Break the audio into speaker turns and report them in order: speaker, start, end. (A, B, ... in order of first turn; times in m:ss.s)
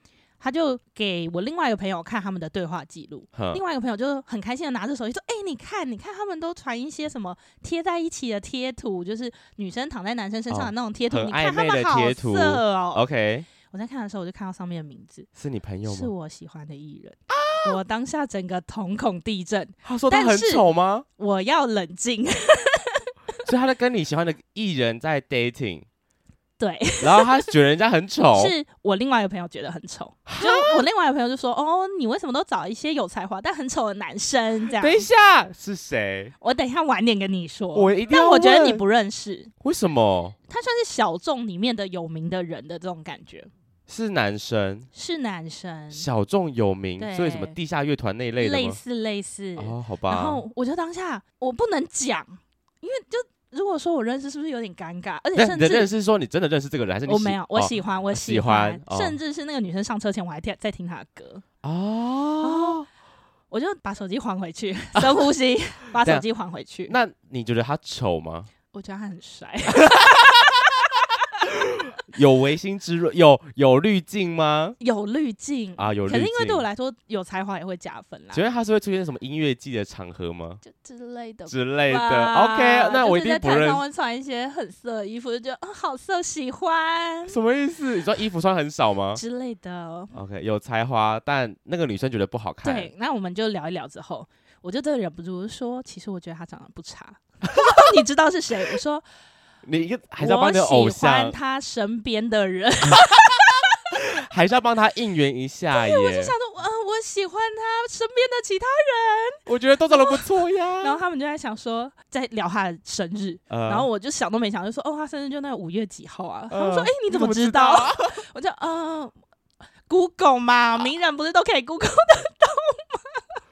0:00.4-0:13.0 A
0:03.3-0:03.6 B
0:10.5-0:13.5 B
0:13.6-0:15.3 A
0:15.4-0:16.1 B
0:15.8-0:23.1 A
0:17.3-0:17.8 B
0:19.8-0:21.0 B
0:23.4-0:25.8 B
0:26.6-0:27.5 A
0:27.0-0:28.5 B
0:28.3-0:35.0 A
0:30.3-0:30.8 B
0:34.8-0:36.3 B
0:36.4-0:39.5 A
0:37.7-0:38.8 B
0:39.6-0:40.4 B
0:40.5-0:43.5 A
0:43.9-0:44.9 B
0:44.9-0:46.1 A
0:45.9-0:48.8 B
0:47.0-0:47.6 A
0:48.4-0:55.9 A
0:49.6-0:50.4 B
0:55.3-0:59.2 B
0:57.0-1:01.4 A
1:01.6-1:02.9 B
1:02.4-1:02.8 A
1:03.5-1:07.0 A
1:05.0-1:05.2 B
1:06.0-1:06.2 B
1:06.9-1:08.5 B
1:08.7-1:11.1 A
1:09.8-1:10.3 B
1:11.5-1:14.8 B
1:14.8-1:18.4 A
1:15.8-1:16.6 B
1:18.3-1:20.6 B
1:20.6-1:27.4 A
1:21.5-1:23.8 B
1:27.3-1:29.2 B
1:29.1-1:30.1 A
1:30.1-1:32.9 B
1:32.6-1:39.0 A
1:39.6-1:41.4 B
1:40.2-1:43.6 A
1:43.0-1:43.4 B
1:43.9-1:46.3 B
1:45.7-1:50.2 A
1:49.4-1:51.0 B
1:50.8-1:59.1 A
1:53.5-1:53.9 B
1:56.5-1:58.2 B
1:59.9-2:03.2 A